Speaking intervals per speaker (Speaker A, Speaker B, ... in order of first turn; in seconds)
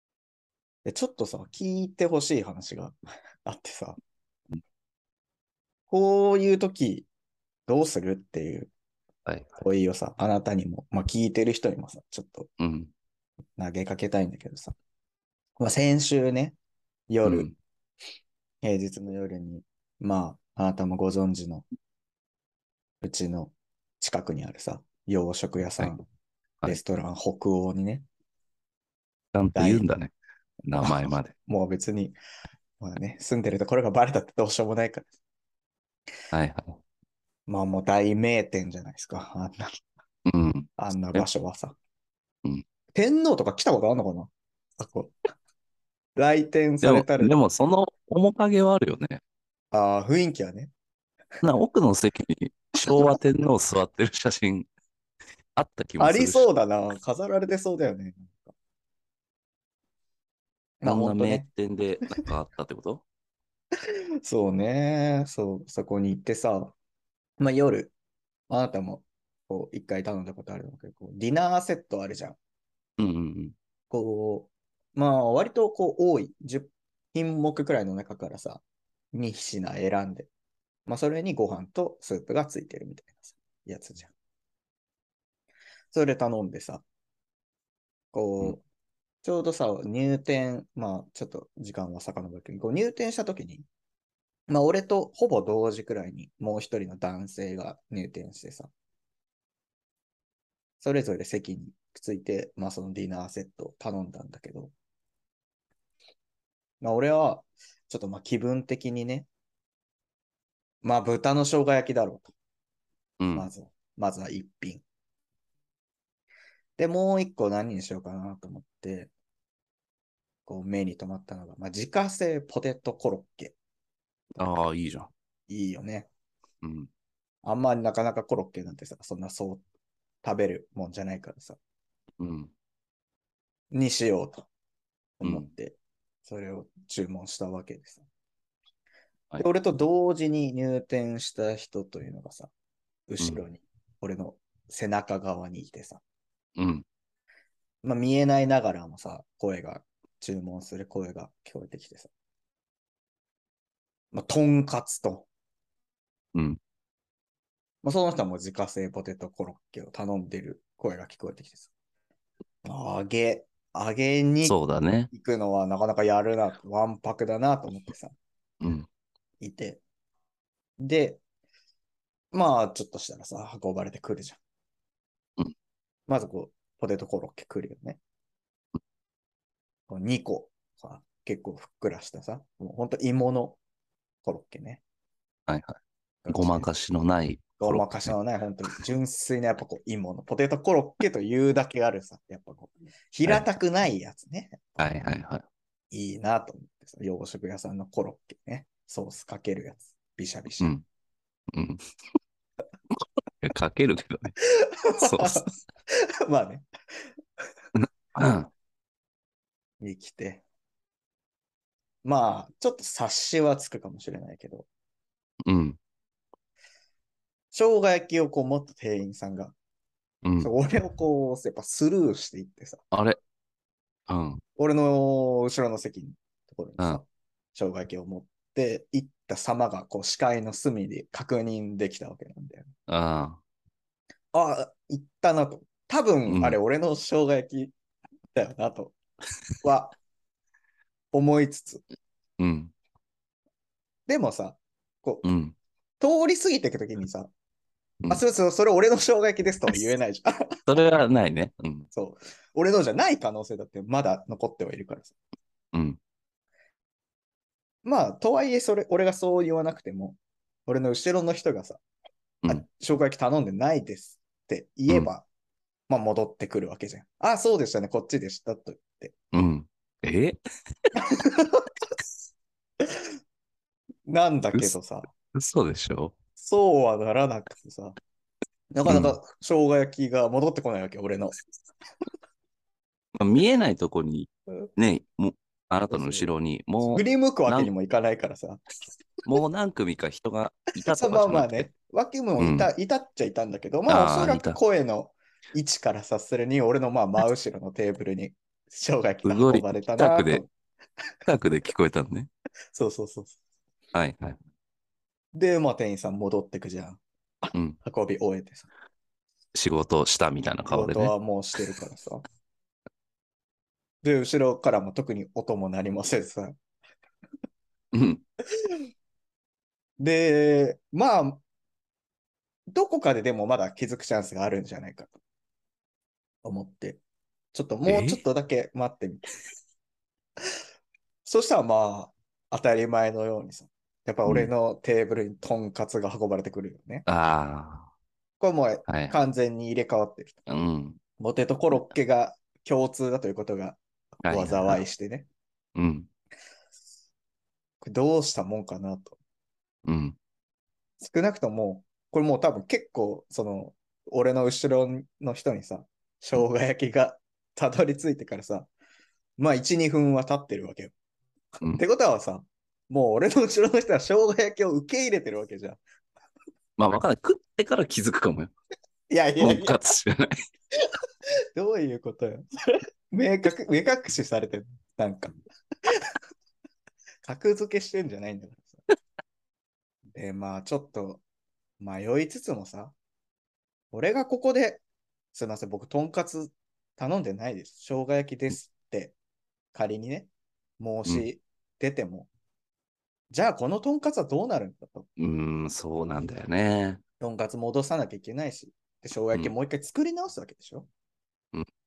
Speaker A: 0.8-4.0, 5.9-7.1, 7.7-8.7, 9.6-12.5, 13.6-14.8, 15.6-16.6, 17.1-17.5, 18.6-21.6, 23.0-26.0, 26.6-28.1, 29.6-29.9, 30.8-32.2, 32.8-35.1, 37.5-39.8, 40.8-41.8, 42.9-45.1, 46.2-47.3, 49.7-50.7, 52.8-53.2, 56.0-58.5, 60.8-61.5, 64.2-66.7, 67.4-67.9, 68.5-72.4, 73.9-80.3, 80.8-84.1, 85.9-86.8, 88.1-88.6, 89.2-93.7, 94.5-98.7, 100.8-104.7, 106.8-109.3, 110.8-112.3, 113.3-114.8, 116.8-119.1, 120.5-123.5, 125.5-126.1, 127.4-129.6, 130.2-131.6, 133.7-134.5, 135.2-138.1, 139.4-142.5, 143.1-146.0, 147.8-152.1, 154.1-155.3, 157.8-161.7, 162.6-164.6, 165.1-168.2, 169.4-169.8, 170.8-171.2, 172.3-174.4, 176.1-178.0, 179.9-183.6, 184.2-184.8, 186.2-186.7, 187.6-194.9, 195.9-200.8, 204.4-206.7, 209.8-210.4, 212.0-214.7, 217.5-219.6, 220.4-222.8, 224.6-232.7, 234.3-237.7, 238.3-239.0, 239.6-240.0, 241.1-241.8, 244.1-245.2, 246.0-247.3, 248.1-250.6, 251.9-255.2, 257.8-261.8, 262.4-265.2, 265.9-269.1, 270.9-271.7, 272.8-273.1, 274.1-275.1, 276.4-278.0, 278.7-281.4, 285.9-286.3, 286.8-288.6, 290.9-300.5, 302.7-303.4, 305.3-308.7, 310.7-312.3, 314.0-316.6, 320.0-321.4, 322.7-325.1, 326.4-327.0, 327.5-329.2, 331.2-337.1, 338.4-340.4, 341.2-345.3, 347.8-349.2, 351.0-358.7, 359.4-360.9, 361.6-365.8, 369.1-369.8, 371.6-375.3, 377.2-378.8, 380.1-381.2, 381.8-382.9, 383.9-389.1, 389.7-392.3, 393.3-395.1, 397.2-400.9
Speaker B: 9.2-9.5, 12.6-12.9, 17.2-17.5, 29.3-30.1, 30.7-31.3, 36.3-36.8, 40.3-41.3, 46.8-49.2, 51.4-54.7, 55.5-56.5, 60.8-63.0, 73.0-73.5, 113.2-113.5, 124.4-125.1, 126.6-126.9, 132.2-132.5, 146.6-146.8, 156.3-156.6, 164.4-165.1, 168.6-168.9, 185.5-185.8, 186.3-188.2, 194.8-195.4, 201.5-201.8, 202.9-204.3, 205.0-205.5, 207.8-208.5, 215.5-215.8, 220.2-220.5, 222.9-223.2, 224.1-224.4, 232.9-233.4, 236.3-236.6, 242.4-242.7, 245.2-245.6, 250.7-251.9, 255.7-256.0, 269.3-270.4, 275.3-276.1, 278.9-279.1, 283.1-287.7, 289.2-291.7, 292.4-292.7, 293.9-294.6, 299.2-300.4, 301.2-302.3, 303.9-304.4, 309.5-311.1, 317.9-318.2, 327.9-328.2, 334.2-334.5, 337.1-337.9, 338.9-339.1, 340.5-341.0, 344.2-344.8, 345.8-346.1, 349.8-350.2, 366.8-368.5, 369.4-370.4, 395.2-397.0